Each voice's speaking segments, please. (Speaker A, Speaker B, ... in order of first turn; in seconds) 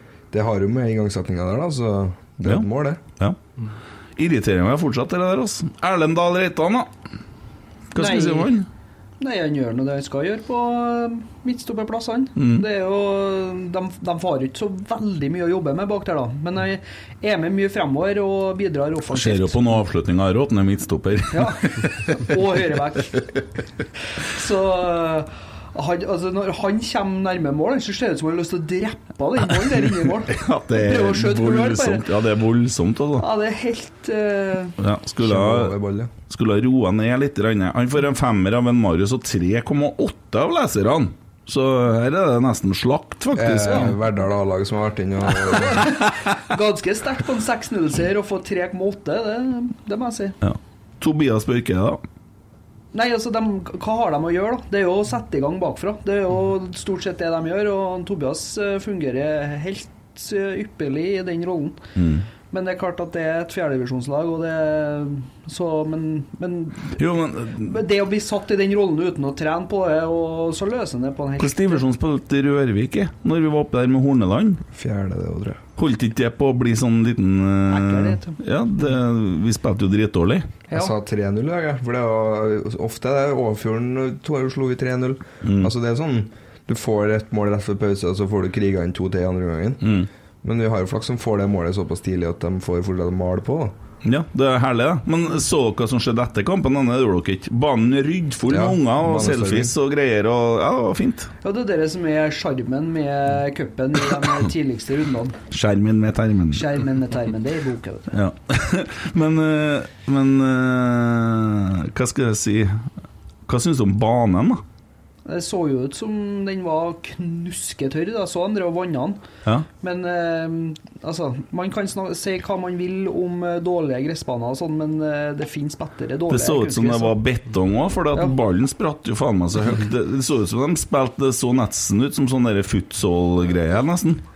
Speaker A: 0.3-3.0, 35.2-36.1, 43.3-45.9, 74.7-75.6, 80.7-93.7, 98.5-99.7
Speaker B: 4.2-6.9, 7.9-8.7, 12.4-12.6, 19.1-22.2, 30.3-33.2, 34.8-35.8, 36.3-44.0, 50.4-52.0, 62.0-62.2, 67.0-67.8, 71.4-74.6, 75.8-80.5, 85.4-85.7, 89.8-90.1, 94.0-101.3, 105.5-106.7, 108.1-112.8, 113.5-114.6, 126.3-134.2
Speaker C: 8.0-8.6, 9.2-19.8, 21.3-23.3, 24.2-32.1, 33.2-34.8, 45.4-50.4, 52.9-61.8, 62.5-67.0, 67.5-71.8, 77.7-78.4, 101.4-105.4, 106.5-108.2, 115.2-119.2, 119.8-127.2